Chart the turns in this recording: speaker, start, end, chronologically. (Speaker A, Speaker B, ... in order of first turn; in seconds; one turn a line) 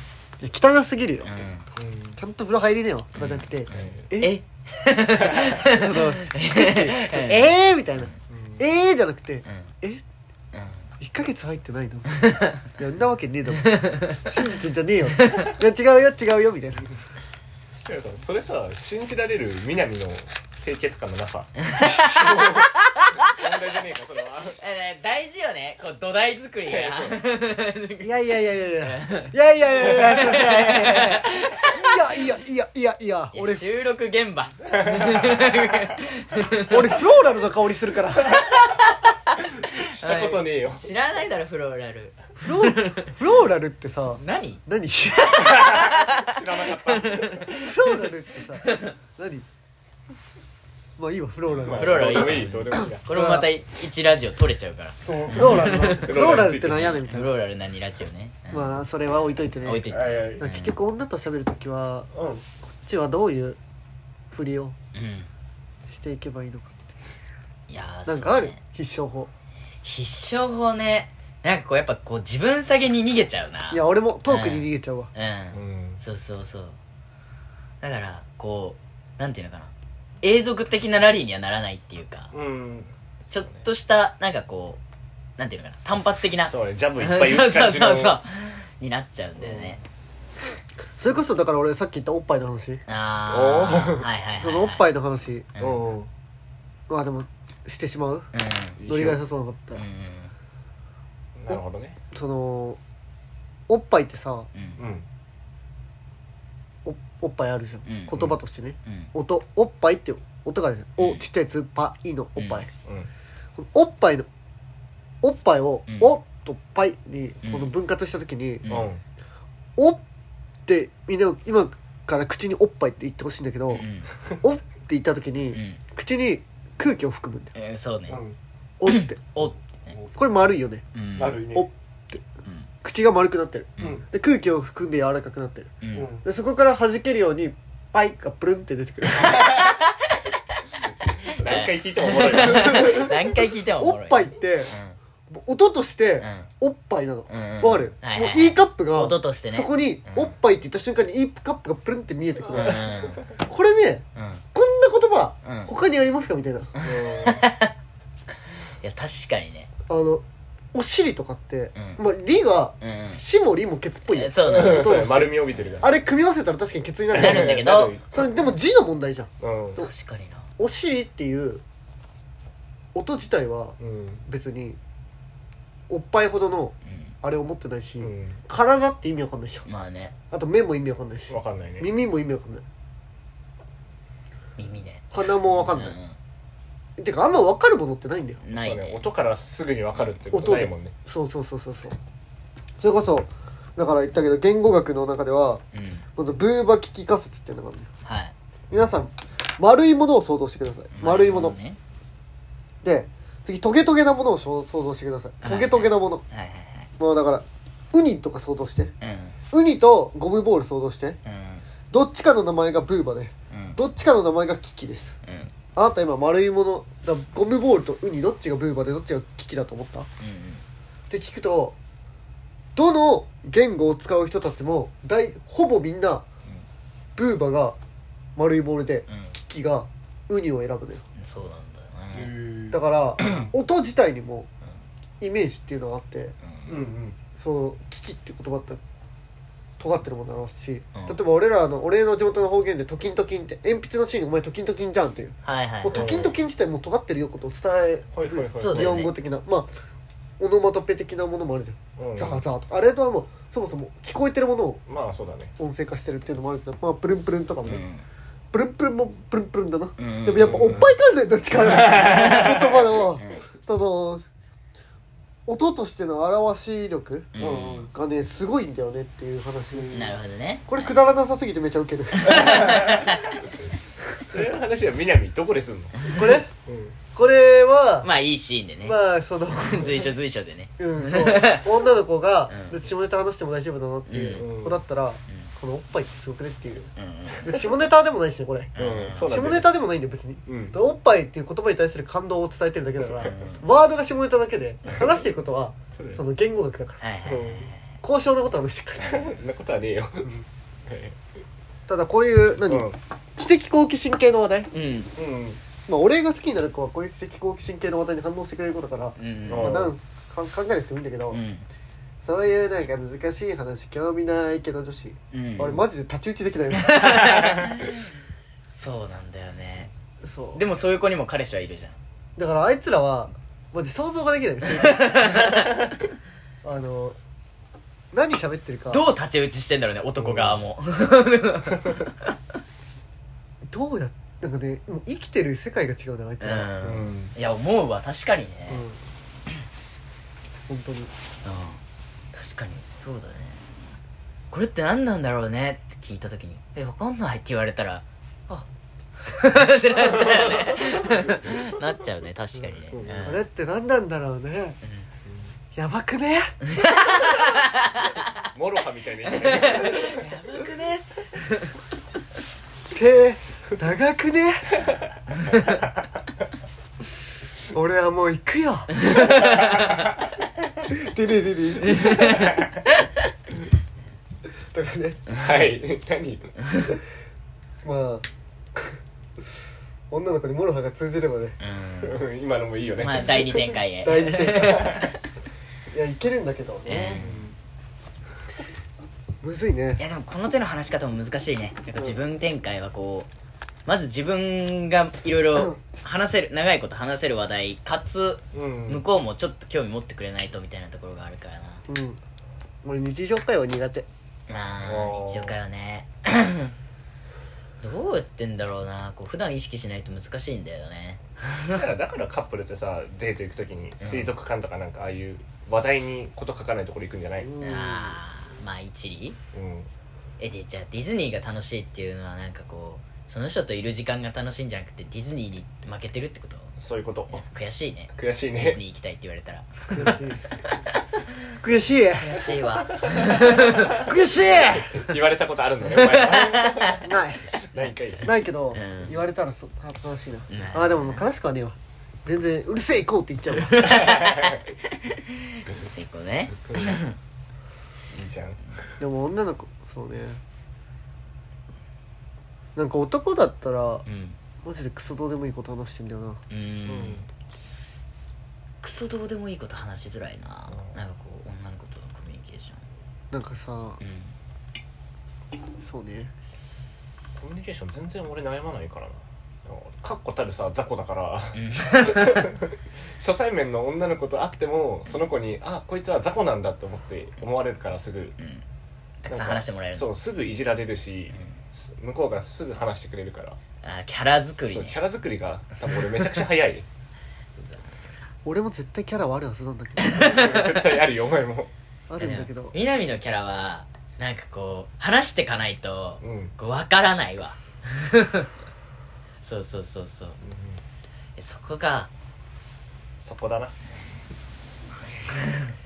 Speaker A: 0.4-1.5
Speaker B: 1.2-1.7
Speaker C: 1.8-2.2
Speaker A: 2.2-4.4
Speaker B: 3.1-7.6
Speaker C: 3.7-4.1
Speaker A: 5.7-10.0
Speaker C: 8.3-8.6
Speaker B: 10.5-10.9
Speaker A: 11.0-16.9
Speaker B: 12.2-12.7
Speaker B: 13.6-14.3
Speaker B: 15.2-15.5
Speaker C: 17.9-24.6
Speaker B: 21.7-23.4
Speaker B: 24.6-32.2
Speaker C: 26.7-27.2
Speaker A: 28.0-33.6
Speaker B: 33.3-36.9
Speaker C: 34.7-35.5
Speaker A: 36.7-38.4
Speaker B: 38.3-43.1
Speaker C: 39.6-40.8
Speaker A: 42.4-45.5
Speaker B: 44.2-44.6
Speaker B: 45.1-47.9
Speaker C: 45.4-47.6
Speaker A: 47.6-49.5
Speaker B: 48.6-48.9
Speaker A: 51.0-53.5
Speaker C: 51.5-53.0
Speaker B: 51.7-58.8
Speaker A: 55.0-57.4
Speaker C: 55.3-57.0
Speaker A: 58.5-62.1
Speaker B: 59.6-60.8
Speaker C: 59.9-60.5
Speaker C: 62.1-62.4
Speaker A: 62.6-63.6
Speaker A: 64.3-64.8
Speaker B: 64.9-65.3
Speaker A: 65.9-66.8
Speaker B: 67.7-68.6
Speaker A: 68.1-69.3
Speaker B: 69.8-76.8
Speaker A: 73.7-75.1
Speaker C: 75.5-76.0
Speaker B: 77.8-82.3
Speaker C: 82.3-82.9
Speaker B: 83.3-84.8
Speaker B: 85.4-89.8
Speaker C: 86.5-88.2
Speaker C: 89.4-89.8
Speaker A: 91.0-92.8
Speaker B: 92.9-94.9
Speaker C: 93.3-94.1
Speaker A: 94.4-95.5
Speaker B: 95.5-95.9
Speaker C: 95.6-96.1
Speaker A: 96.9-98.3
Speaker B: 98.3-98.8
Speaker C: 98.8-99.2
Speaker A: 98.9-99.8
Speaker B: 99.8-100.3
Speaker C: 101.4-102.0
Speaker A: 102.1-102.8
Speaker A: 103.7-104.5
Speaker B: 104.5-104.8
Speaker C: 104.8-105.1
Speaker A: 106.8-112.7
Speaker B: 107.9-108.3
Speaker B: 108.9-109.1
Speaker B: 112.4-112.6
Speaker A: 113.6-114.3
Speaker A: 115.2-118.7
Speaker B: 115.9-116.2
Speaker B: 117.4-117.7
Speaker B: 118.6-118.9
Speaker C: 118.7-119.0
Speaker A: 119.8-120.0
Speaker A: 120.7-123.9
Speaker B: 123.7-124.1
Speaker A: 124.4-127.5
Speaker B: 125.5-125.8
Speaker B: 127.5-128.2
Speaker C: 128.1-128.4
Speaker A: 128.8-129.3
Speaker B: 128.9-129.9
Speaker A: 130.2-130.8
Speaker B: 130.9-131.4
Speaker C: 131.2-131.7
Speaker A: 131.5-132.2
Speaker A: 132.8-139.5
Speaker C: 133.8-134.1
Speaker B: 135.8-136.1
Speaker C: 135.9-136.2
Speaker B: 139.2-145.0
Speaker C: 139.2-139.6
Speaker C: 141.2-143.1
Speaker A: 142.4-144.7
Speaker A: 145.3-156.7
Speaker B: 146.2-146.5
Speaker B: 147.3-150.3
Speaker C: 152.5-152.9
Speaker B: 152.5-153.2
Speaker B: 154.2-154.4
Speaker B: 155.4-155.7
Speaker B: 156.8-157.7
Speaker C: 156.8-157.5
Speaker B: 158.8-159.7
Speaker A: 159.9-167.6
Speaker B: 161.8-162.0
Speaker B: 162.8-163.2
Speaker B: 164.1-165.9
Speaker C: 164.5-165.9
Speaker B: 167.1-168.0
Speaker C: 167.1-168.3
Speaker A: 168.1-169.9
Speaker C: 169.4-169.8
Speaker B: 169.8-170.5
Speaker A: 170.6-171.6
Speaker A: 172.9-174.8
Speaker C: 173.8-174.2
Speaker A: 175.9-179.7
Speaker B: 176.8-177.1
Speaker C: 178.0-178.4
Speaker B: 179.7-180.1
Speaker A: 180.3-182.6
Speaker C: 181.3-181.9
Speaker B: 184.6-186.2
Speaker A: 185.1-186.0
Speaker A: 187.0-188.4
Speaker B: 188.4-189.0
Speaker C: 188.5-190.9
Speaker A: 190.3-192.0
Speaker A: 192.8-195.6
Speaker B: 195.7-196.0
Speaker A: 196.2-197.9
Speaker B: 198.1-198.3
Speaker A: 198.7-201.6
Speaker B: 200.9-201.8
Speaker A: 202.8-206.2
Speaker B: 205.4-206.9
Speaker A: 207.0-208.9
Speaker B: 209.0-209.4
Speaker A: 209.5-211.2
Speaker B: 211.2-211.6
Speaker A: 211.9-215.2
Speaker B: 213.5-213.8
Speaker B: 215.2-215.5
Speaker A: 215.8-220.1
Speaker B: 220.2-220.6
Speaker A: 221.1-221.8
Speaker A: 222.8-226.2
Speaker A: 227.2-227.8
Speaker A: 228.4-231.0
Speaker B: 229.1-229.3
Speaker B: 231.2-232.3
Speaker C: 232.1-232.8
Speaker A: 232.7-234.5
Speaker B: 233.2-233.5
Speaker A: 235.2-236.3
Speaker B: 236.4-236.8
Speaker C: 236.7-237.2
Speaker A: 237.4-238.8
Speaker A: 239.8-249.7
Speaker B: 245.4-246.2
Speaker C: 245.9-246.3
Speaker C: 248.1-249.1
Speaker B: 248.6-249.1
Speaker A: 250.4-254.8
Speaker C: 252.0-252.4
Speaker C: 254.9-255.5
Speaker A: 255.6-257.9
Speaker B: 257.7-258.0
Speaker A: 258.5-264.3
Speaker B: 260.0-260.7
Speaker C: 260.4-260.9
Speaker C: 261.7-263.0
Speaker B: 262.0-262.6
Speaker B: 263.2-263.4
Speaker A: 265.5-270.0
Speaker B: 267.3-267.9
Speaker C: 267.4-267.9
Speaker C: 269.8-270.1
Speaker B: 269.9-271.0
Speaker A: 270.7-273.0
Speaker B: 272.2-273.3
Speaker C: 272.3-273.3
Speaker C: 274.3-276.9
Speaker A: 276.1-276.5
Speaker A: 277.1-278.1
Speaker B: 278.0-279.0
Speaker A: 278.8-280.1
Speaker B: 279.5-281.7
Speaker A: 280.8-297.0
Speaker B: 282.5-282.8
Speaker B: 284.1-284.5
Speaker C: 284.4-284.8
Speaker B: 287.0-287.6
Speaker B: 288.8-289.4
Speaker C: 288.8-289.7
Speaker C: 290.5-290.8
Speaker B: 293.3-293.6
Speaker C: 295.9-296.2
Speaker B: 297.0-297.8
Speaker C: 297.3-297.7
Speaker A: 298.0-299.4
Speaker C: 299.0-301.2
Speaker A: 301.9-304.7
Speaker C: 302.7-303.0
Speaker B: 304.7-305.1
Speaker C: 305.2-305.6
Speaker A: 305.9-311.4
Speaker B: 309.2-309.9
Speaker C: 309.5-309.9
Speaker B: 311.3-311.7
Speaker A: 312.2-317.4
Speaker B: 315.3-315.8
Speaker B: 316.8-318.0
Speaker C: 317.3-317.7
Speaker B: 318.7-319.9
Speaker A: 320.2-320.6
Speaker B: 320.5-322.0
Speaker A: 322.4-325.4
Speaker B: 324.7-325.9
Speaker A: 326.6-327.2
Speaker A: 328.1-329.1
Speaker B: 328.9-332.3
Speaker C: 330.2-330.6
Speaker A: 333.7-336.9
Speaker B: 336.4-338.9
Speaker C: 336.8-337.3
Speaker A: 340.7-341.1
Speaker B: 341.4-341.8
Speaker B: 342.3-343.6
Speaker B: 344.5-348.7
Speaker B: 349.2-353.4
Speaker C: 350.1-351.6
Speaker C: 352.9-353.3
Speaker A: 353.2-354.8
Speaker C: 355.3-355.5
Speaker A: 355.7-356.6
Speaker B: 356.6-358.3
Speaker C: 358.5-360.3
Speaker B: 359.3-361.7
Speaker A: 362.9-364.7
Speaker B: 365.5-365.8
Speaker A: 367.7-369.0
Speaker B: 369.1-369.9
Speaker A: 370.9-372.5
Speaker B: 371.9-373.0
Speaker A: 374.7-375.3
Speaker C: 375.3-376.6
Speaker B: 376.7-376.9
Speaker A: 377.8-379.4
Speaker A: 380.1-381.6
Speaker B: 381.6-382.2
Speaker C: 382.0-383.6
Speaker B: 383.0-385.2
Speaker A: 384.0-385.0
Speaker C: 384.6-385.1
Speaker A: 385.9-387.2
Speaker B: 386.9-387.3
Speaker C: 387.0-387.6
Speaker A: 389.4-390.0
Speaker B: 390.0-393.3
Speaker B: 393.9-401.8
Speaker C: 398.5-399.1
Speaker A: 401.9-402.2
Speaker A: 402.8-404.1
Speaker B: 404.5-406.7
Speaker C: 404.9-405.6
Speaker B: 407.8-411.8
Speaker C: 411.7-417.6
Speaker B: 414.0-414.3
Speaker A: 417.4-418.2
Speaker B: 417.6-419.4
Speaker C: 419.5-419.9
Speaker B: 420.4-426.8
Speaker C: 426.8-427.4
Speaker B: 427.3-430.2
Speaker C: 428.1-428.8
Speaker A: 429.9-430.4
Speaker A: 431.6-432.4
Speaker B: 432.2-434.0
Speaker C: 433.0-434.0
Speaker A: 433.9-435.1
Speaker C: 434.7-437.1
Speaker B: 435.9-437.0
Speaker A: 437.0-437.5
Speaker C: 437.7-438.4
Speaker B: 437.8-439.2
Speaker A: 438.2-444.0
Speaker B: 440.5-441.2
Speaker B: 443.7-447.2
Speaker C: 443.8-444.6
Speaker C: 446.7-447.0
Speaker C: 448.1-448.8
Speaker A: 449.0-450.4
Speaker A: 452.8-454.0
Speaker B: 454.1-454.4
Speaker A: 454.6-456.4
Speaker B: 456.5-457.2
Speaker C: 456.9-457.3
Speaker B: 458.8-462.8
Speaker C: 460.7-461.0
Speaker A: 463.3-464.0
Speaker B: 464.0-464.4
Speaker A: 465.8-466.3
Speaker C: 467.4-478.4
Speaker B: 471.6-472.5
Speaker B: 478.4-478.6
Speaker B: 479.2-480.1
Speaker C: 479.3-483.6
Speaker B: 483.8-485.0
Speaker C: 484.7-486.9
Speaker A: 488.4-490.3
Speaker B: 490.0-490.8
Speaker C: 490.2-491.7
Speaker A: 492.1-492.8
Speaker B: 492.2-498.5
Speaker C: 496.2-496.5
Speaker B: 499.4-500.4
Speaker C: 500.4-500.8
Speaker B: 501.4-502.1
Speaker C: 503.2-503.7
Speaker B: 505.3-505.7